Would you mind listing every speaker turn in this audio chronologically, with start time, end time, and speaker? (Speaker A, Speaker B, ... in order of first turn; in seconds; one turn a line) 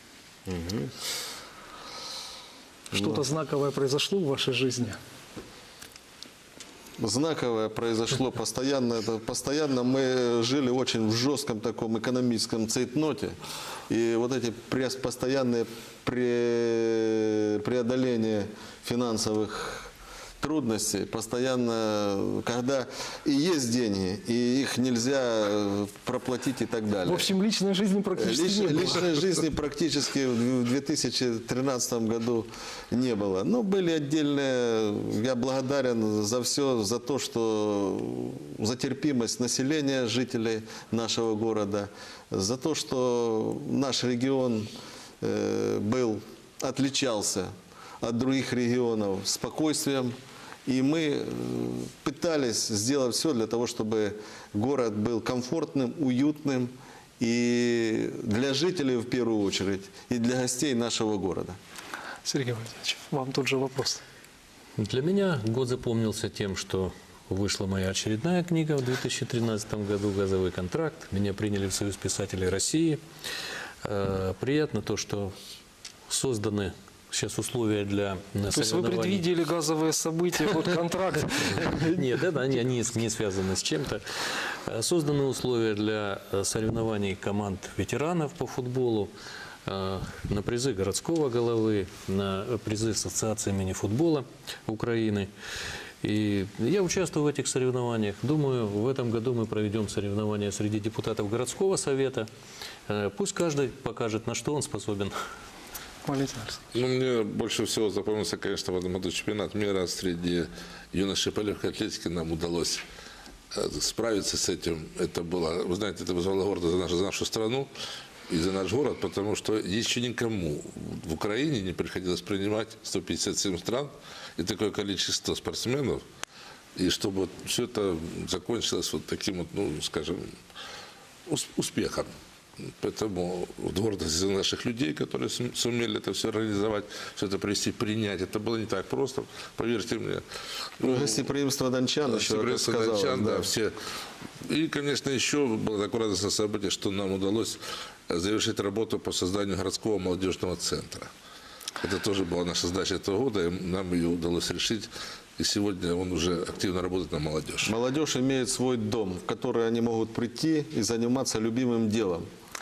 Speaker A: 0.5-0.9
Speaker A: 2.9-3.2
Speaker B: 3.0-5.0
Speaker A: 7.0-13.3
Speaker A: 13.9-19.9
Speaker A: 20.4-27.3
Speaker B: 27.1-29.0
Speaker A: 28.2-44.7
Speaker A: 45.2-47.5
Speaker A: 48.0-50.1
Speaker A: 50.7-61.6
Speaker B: 62.3-64.0
Speaker C: 64.8-73.0
Speaker C: 73.8-75.3
Speaker C: 76.1-79.3
Speaker B: 78.5-82.0
Speaker C: 81.9-84.0
Speaker C: 84.7-89.1
Speaker C: 89.7-95.3
Speaker C: 96.0-102.3
Speaker C: 102.9-105.2
Speaker B: 106.0-106.6
Speaker D: 106.7-112.8
Speaker D: 113.5-117.7
Speaker D: 118.3-126.0
Speaker D: 126.8-130.2
Speaker D: 131.3-132.1
Speaker D: 132.8-140.2
Speaker D: 140.8-141.3
Speaker A: 140.8-143.5
Speaker D: 142.1-143.7
Speaker D: 144.5-151.1
Speaker D: 151.8-157.7
Speaker A: 157.6-162.3